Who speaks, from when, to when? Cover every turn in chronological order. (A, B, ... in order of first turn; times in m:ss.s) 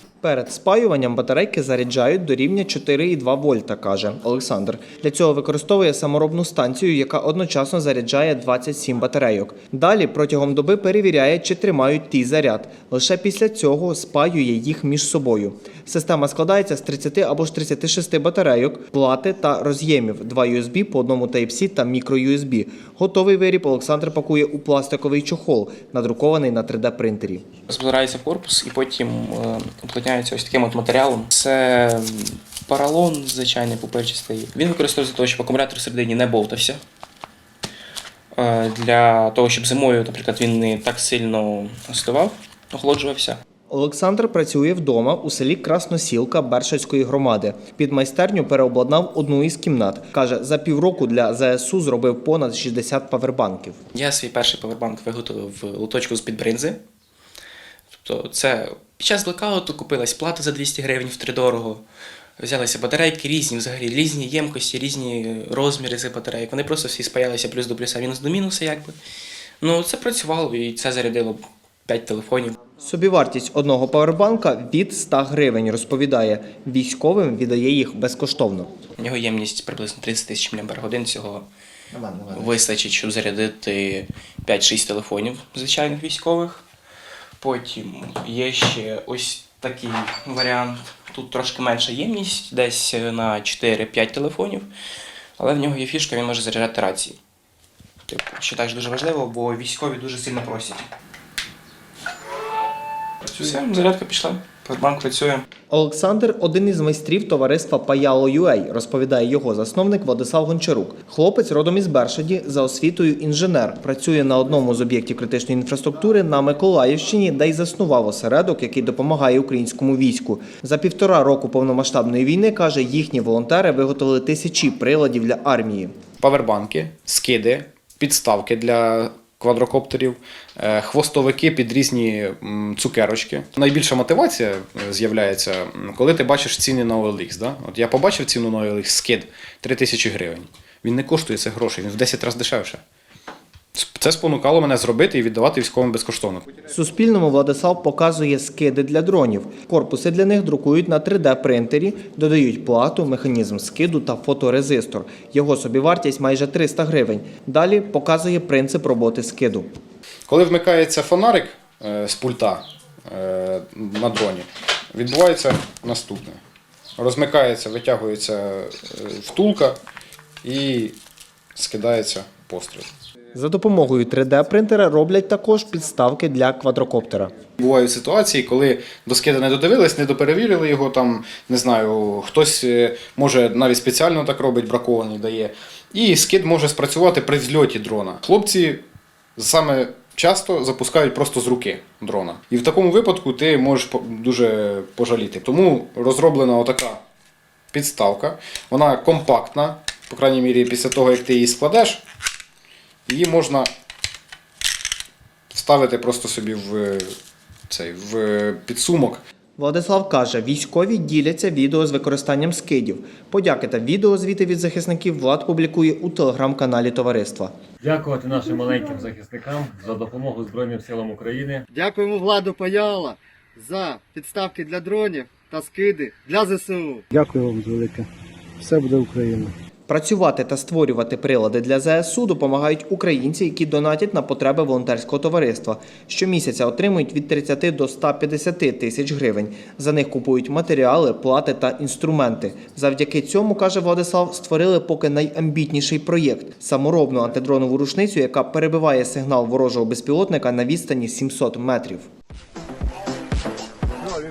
0:00.2-0:27.5 A
0:27.7-0:36.8 B
0:38.3-0:43.4 B
0:43.7-0:53.8 A
0:53.9-0:56.8 B
0:57.9-1:01.8 B
1:02.4-1:09.0 B
1:09.6-1:12.6 B
1:12.8-1:18.7 A
1:19.0-1:21.5 B
1:21.9-1:22.6 A
1:22.3-1:26.6 B
1:27.4-1:34.7 B
1:35.4-1:37.2 B
1:38.1-1:40.9 B
1:43.2-1:45.4 B
1:45.7-2:05.9 A
2:06.2-2:22.8 C
2:23.7-2:26.5 C
2:26.7-2:39.7 A
2:40.3-2:46.4 C
2:47.0-2:49.8 C
2:50.4-2:51.0 C
2:51.6-2:52.9 C
2:53.3-2:57.3 A
2:57.6-3:08.8 C
3:09.4-3:17.0 C
3:17.7-3:22.0 C
3:23.1-3:23.7 C
3:25.5-3:27.1 C
3:27.7-3:29.2 C
3:29.6-3:37.5 A
3:37.8-3:41.6 D
3:41.7-3:47.0 E
3:47.1-3:48.1 F
3:48.6-3:49.5 F
3:49.9-4:12.1 A